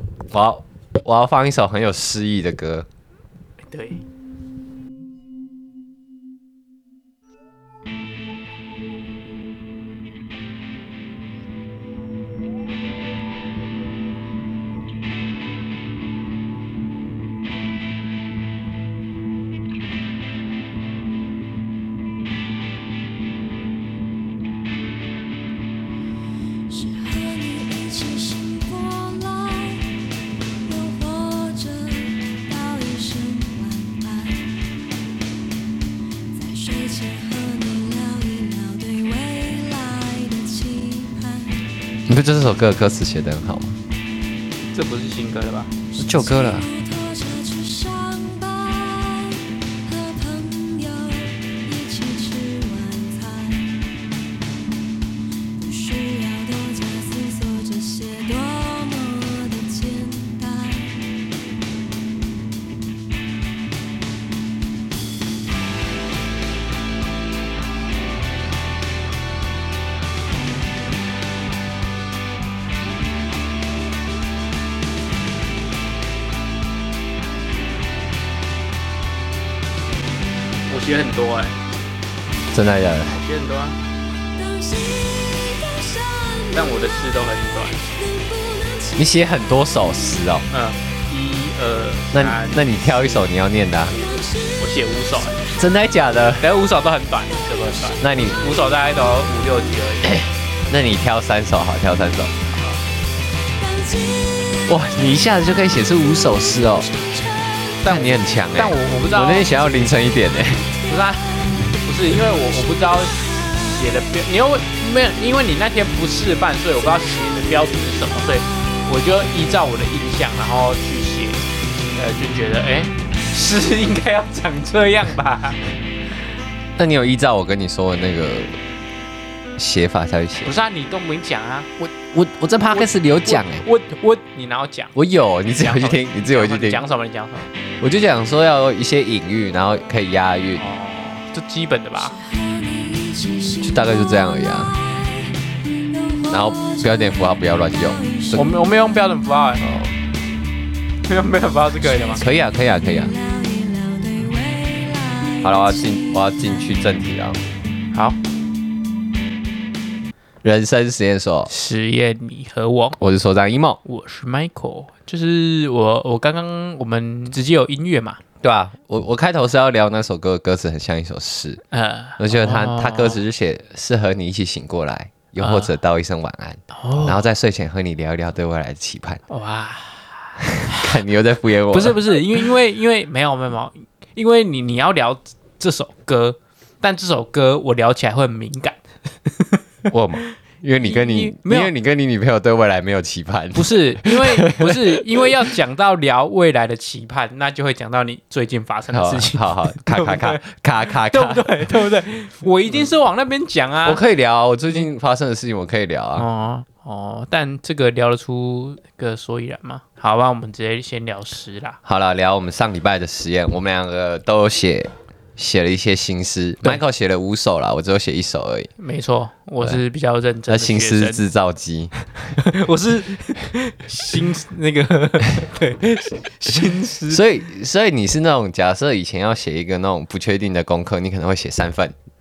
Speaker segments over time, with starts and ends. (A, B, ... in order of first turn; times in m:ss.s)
0:00.3-0:02.8 A
0:03.7-0:04.0 B
0:26.7-0:29.9 C
0:30.6-0:34.6 C
0:36.3-0:41.6 C
0:42.1-0:43.8 A
0:44.7-0:45.7 B
0:45.9-0:54.0 C
0:46.0-0:46.7 A
0:55.6-1:01.1 C
1:20.7-1:21.6 B
1:22.5-1:23.2 A
1:23.2-1:23.8 B
1:24.3-1:26.8 C
1:26.5-1:27.9 B
1:28.0-1:30.1 C
1:29.0-1:30.4 A
1:30.5-1:32.7 B
1:32.1-1:34.0 A
1:33.9-1:34.6 C
1:34.6-1:35.4 B
1:35.6-1:36.4 A
1:36.4-1:40.3 B
1:38.0-1:38.4 A
1:40.0-1:42.3 A
1:42.5-1:42.8 B
1:43.6-1:45.5 C
1:44.6-1:46.9 A
1:46.6-1:48.1 C
1:47.8-1:49.5 B
1:47.8-1:50.6 A
1:50.9-2:01.4 B
1:53.2-1:53.7 C
2:01.9-2:05.6 B
2:06.8-2:08.6 A
2:09.6-2:10.5 A
2:10.4-2:11.9 B
2:12.1-2:13.6 A
2:12.7-2:14.9 B
2:14.9-2:16.8 A
2:15.6-2:17.5 B
2:17.8-2:20.6 A
2:20.6-2:22.2 B
2:22.0-2:28.6 C
2:23.6-2:24.7 A
2:26.3-2:28.4 A
2:28.3-2:29.6 B
2:29.6-2:29.9 A
2:31.1-2:32.2 B
2:31.8-2:36.8 C
2:32.2-2:33.1 A
2:35.4-2:37.4 A
2:40.4-2:41.5 A
2:41.5-2:43.0 B
2:43.0-2:43.8 A
2:43.8-2:48.2 B
2:48.4-2:51.6 A
2:51.7-2:53.2 B
2:52.2-2:59.2 A
2:55.4-2:55.7 B
2:56.7-2:57.2 B
2:59.3-3:01.0 B
3:00.6-3:02.0 A
3:01.7-3:09.6 B
3:09.9-3:15.3 A
3:10.8-3:11.7 B
3:13.5-3:20.4 B
3:18.9-3:21.8 A
3:21.0-3:24.0 B
3:23.8-3:26.3 A
3:26.2-3:31.8 B
3:31.8-3:38.7 A
3:38.8-3:41.2 B
3:40.5-3:42.0 A
3:42.4-3:47.2 B
3:47.1-3:51.9 A